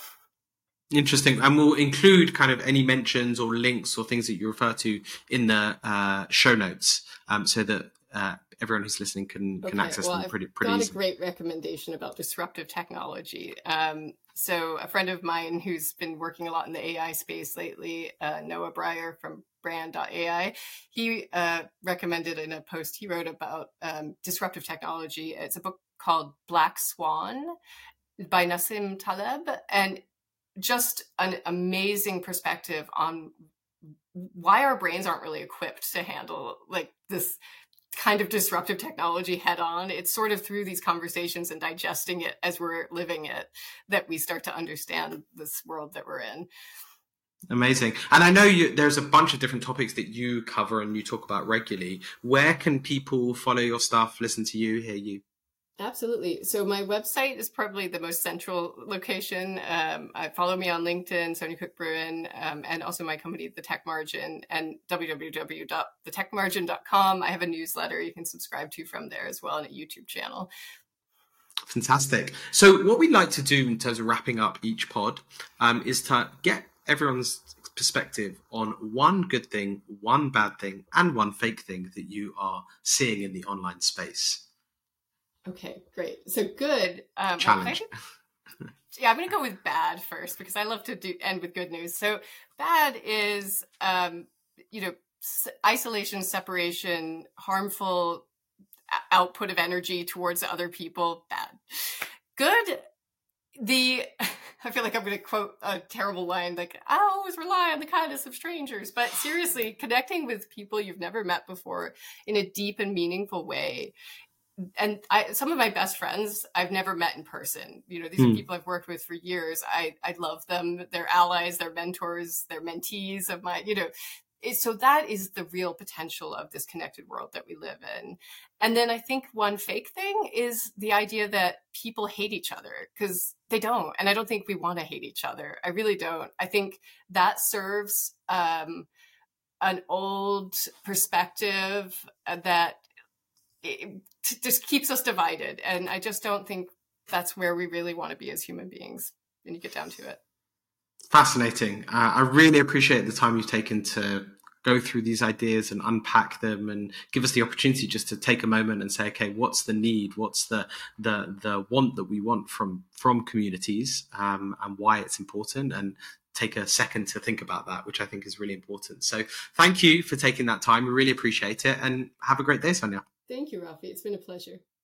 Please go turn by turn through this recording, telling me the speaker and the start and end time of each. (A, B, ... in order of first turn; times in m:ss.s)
0:00.9-0:11.0 A
0:09.6-0:27.6 B
0:28.2-0:30.0 B
0:30.6-0:33.3 B
0:34.1-0:37.4 B
0:37.9-0:46.5 B
0:47.5-0:55.2 A
0:55.8-1:10.5 B
1:11.7-1:24.4 A
1:25.5-1:27.9 B
1:27.4-1:27.9 A
1:28.9-1:38.3 B
1:38.9-1:42.8 B
1:43.6-1:53.9 B
1:54.6-2:03.9 B
1:58.2-1:58.4 A
2:04.4-2:18.9 B
2:19.6-2:22.8 B
2:23.6-2:30.2 B
2:31.1-2:53.0 A
2:53.3-2:54.6 B